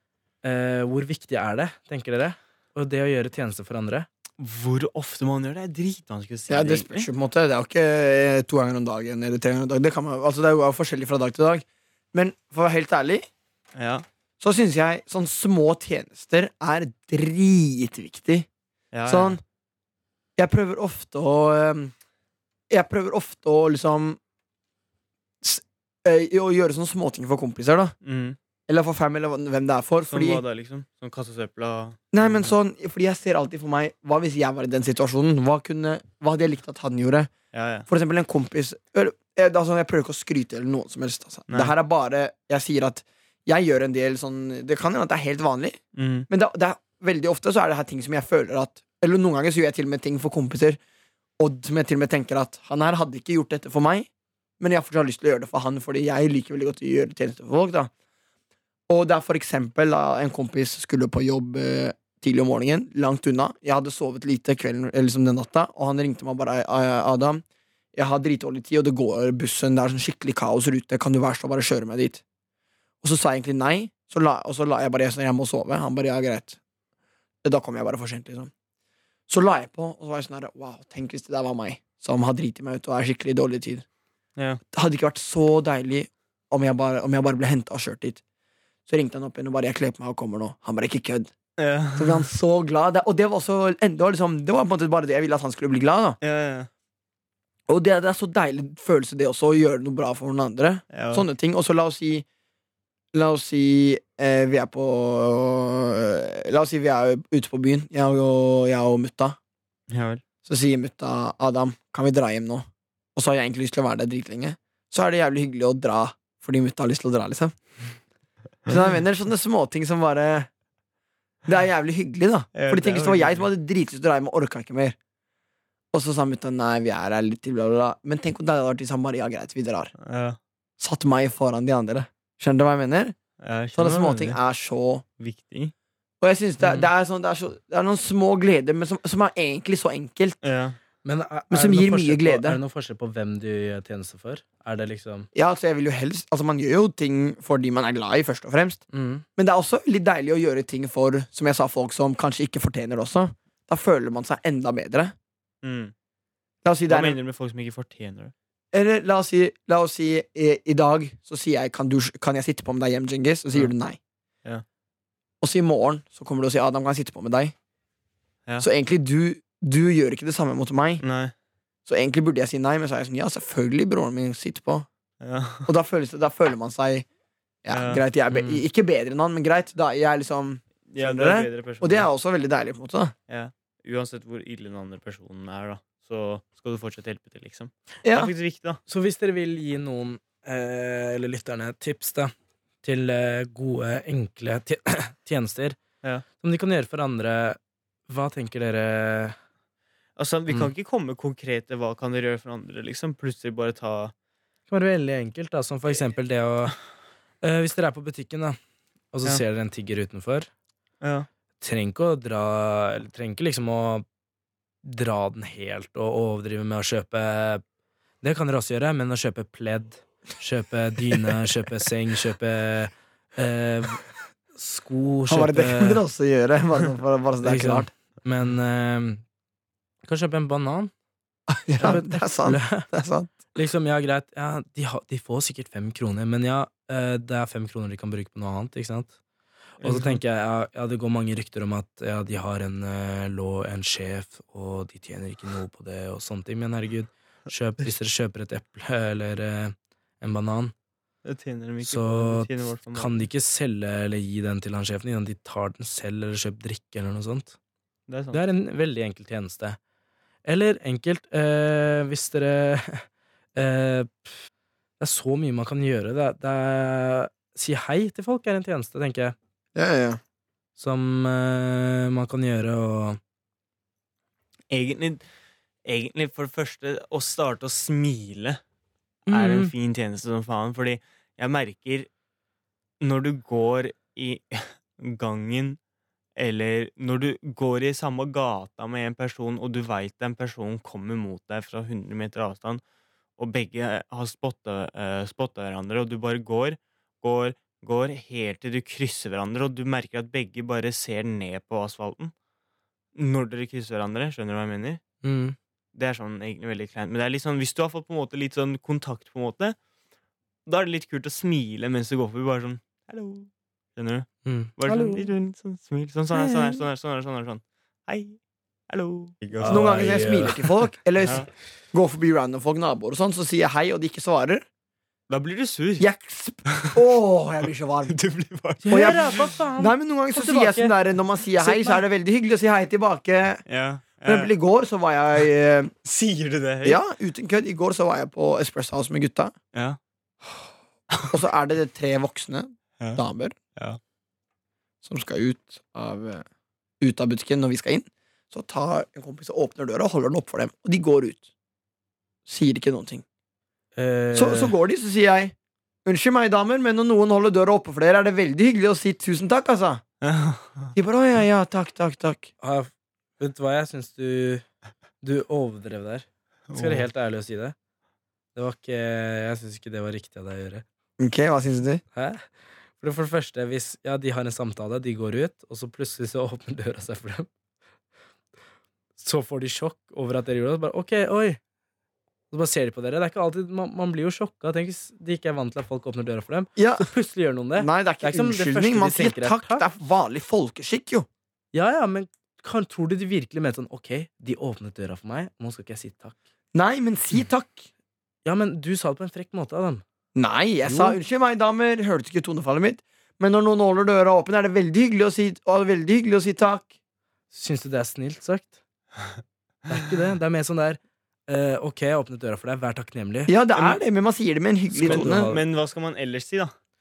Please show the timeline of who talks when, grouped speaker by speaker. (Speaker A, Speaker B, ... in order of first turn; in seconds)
Speaker A: 0.4-4.1, 141.0-145.3, 148.9-149.2, 178.3-178.6, 188.9-195.8, 196.4-199.3, 204.7-206.8, 207.4-208.6, 209.1-210.5, 211.6-214.0, 214.8-217.6, 218.2-226.0, 227.4-229.2, 230.0-230.9, 231.8-232.9, 233.5-239.1, 239.8-250.7, 251.8-257.6, 258.3-259.8, 260.4-264.3, 265.0-269.3, 270.8-273.2, 279.3-279.7, 305.2-305.6, 314.4-315.3, 316.3-316.8, 319.6-320.6, 328.8-330.9, 331.6-332.0, 353.9-354.7, 362.6-364.6, 365.2-367.7, 368.5-370.8, 372.1-372.4, 373.0-377.5, 379.2-381.6, 382.5-389.8, 391.7-396.4, 398.4-400.0, 400.8-401.2, 407.5-408.8, 409.9-413.5, 414.9-415.6
Speaker B: 4.4-7.1, 13.7-14.0, 18.9-19.4, 28.0-28.4, 30.1-32.5, 37.5-37.9, 45.9-46.3, 91.6-92.3, 96.2-96.7, 100.9-101.2, 109.9-110.2, 122.5-123.5, 130.0-130.4, 133.4-134.4, 135.2-135.7, 140.4-140.8, 155.6-155.9, 156.9-158.3, 171.0-171.3, 175.2-175.7, 177.7-178.0, 180.9-182.1, 183.3-188.8, 200.2-204.1, 211.0-211.3, 239.8-240.2, 251.2-253.2, 258.1-258.4, 274.7-275.2, 275.8-278.6, 279.3-282.1, 283.0-285.8, 286.4-292.8, 293.4-302.3, 303.1-305.0, 305.9-309.8, 310.6-318.4, 318.9-320.1, 325.3-326.1, 326.7-327.0, 328.1-329.5, 333.7-334.5, 336.0-337.0, 341.1-341.4, 360.2-360.9, 366.7-367.1, 415.0-416.7
Speaker C: 6.5-13.3, 14.4-18.5, 19.1-19.4, 20.4-21.9, 22.7-24.2, 25.4-27.9, 28.7-30.4, 32.1-37.3, 37.9-50.8, 51.4-54.1, 54.6-57.9, 58.9-67.4, 67.9-72.2, 73.0-76.6, 77.4-78.5, 79.3-83.8, 84.7-88.2, 88.9-91.3, 92.0-96.2, 97.7-102.2, 103.1-109.4, 110.5-117.5, 118.7-120.5, 121.5-125.0, 125.9-129.9, 130.8-133.1, 133.8-135.0, 136.2-140.4, 141.5-142.6, 145.3-148.8, 149.4-155.1, 156.6-157.2, 158.7-164.0, 165.4-167.5, 168.6-171.0, 171.8-174.9, 175.7-177.1, 177.6-183.1, 188.0-188.3, 225.3-227.9, 231.5-233.4, 269.7-270.2, 319.6-324.6, 326.0-328.1, 328.9-333.6, 334.2-335.9, 336.8-339.5, 341.3-343.5, 345.0-346.4, 347.0-351.5, 352.4-353.2, 354.3-360.0, 360.9-362.5, 371.2-372.0, 386.8-387.1, 387.8-391.3, 396.7-397.9, 400.3-406.9, 413.5-415.5